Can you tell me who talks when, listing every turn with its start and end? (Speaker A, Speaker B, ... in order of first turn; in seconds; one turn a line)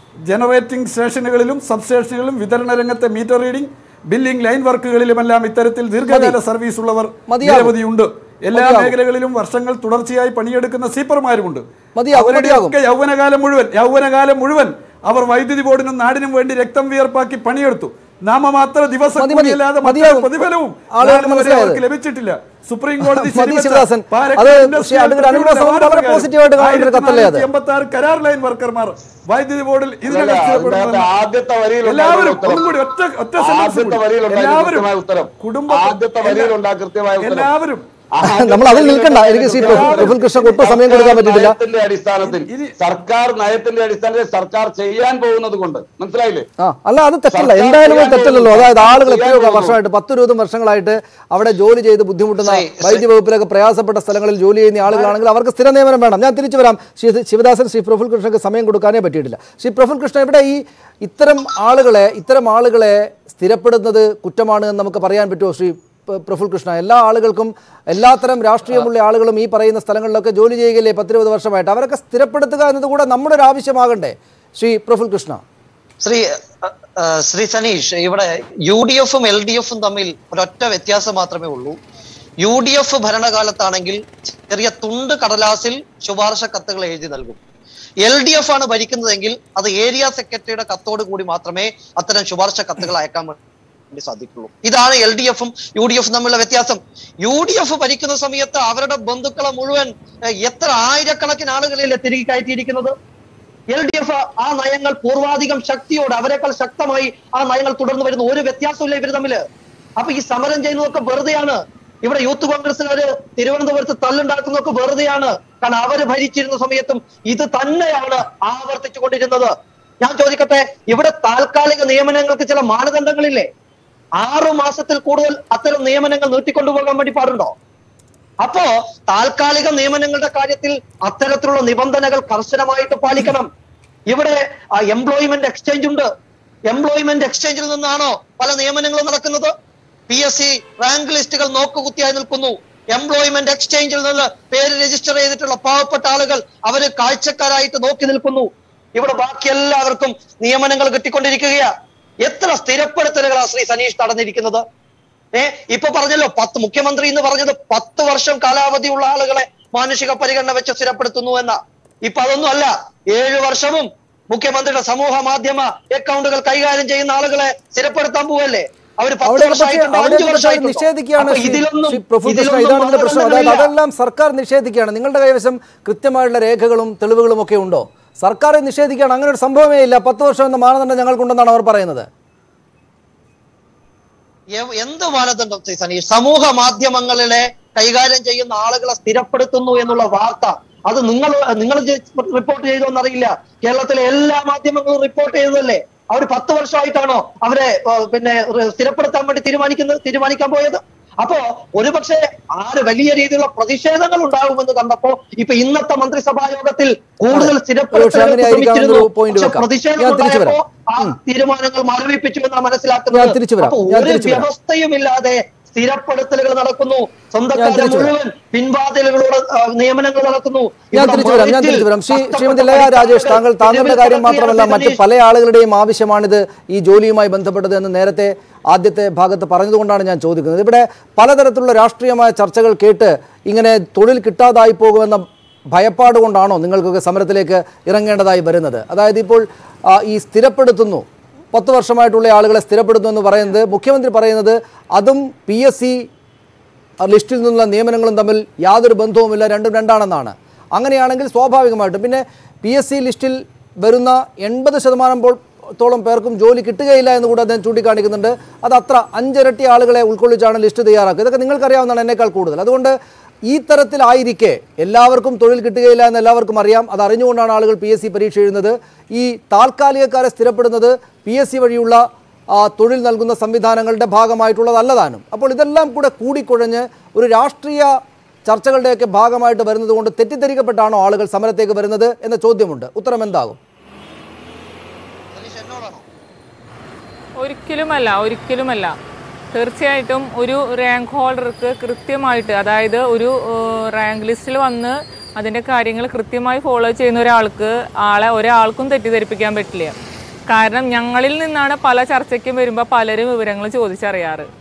Speaker A: 0.3-31.1
Speaker B: 6.1-6.4
Speaker B: 7.3-7.8
Speaker B: 8.5-8.9
Speaker B: 11.9-12.8
Speaker B: 19.2-20.3
Speaker B: 20.9-21.8
Speaker B: 23.0-27.5
Speaker C: 30.1-32.7
Speaker A: 31.8-34.9
Speaker C: 33.4-37.5
Speaker A: 35.4-36.5
Speaker A: 37.2-37.9
Speaker C: 38.1-46.5
Speaker B: 38.2-41.6
Speaker A: 39.5-40.3
Speaker A: 42.2-42.7
Speaker B: 46.6-75.4
Speaker C: 47.3-49.8
Speaker A: 54.9-55.1
Speaker D: 76.0-81.8
Speaker D: 82.4-87.4
Speaker D: 88.0-93.4
Speaker D: 93.9-103.0
Speaker D: 103.7-109.4
Speaker D: 110.0-123.5
Speaker D: 124.2-127.5
Speaker D: 128.4-133.5
Speaker D: 134.1-136.1
Speaker D: 136.7-139.5
Speaker D: 140.1-151.7
Speaker D: 152.2-154.6
Speaker D: 155.3-173.7
Speaker B: 169.2-182.1
Speaker D: 184.6-225.0
Speaker B: 207.3-211.2
Speaker B: 213.1-214.5
Speaker B: 217.6-218.1
Speaker B: 220.9-235.2
Speaker B: 235.7-246.1
Speaker B: 247.0-263.0
Speaker B: 263.5-272.0
Speaker B: 272.5-277.9
Speaker B: 278.5-283.6
Speaker D: 285.3-286.1
Speaker E: 287.4-288.9
Speaker E: 289.5-299.9
Speaker E: 300.5-304.5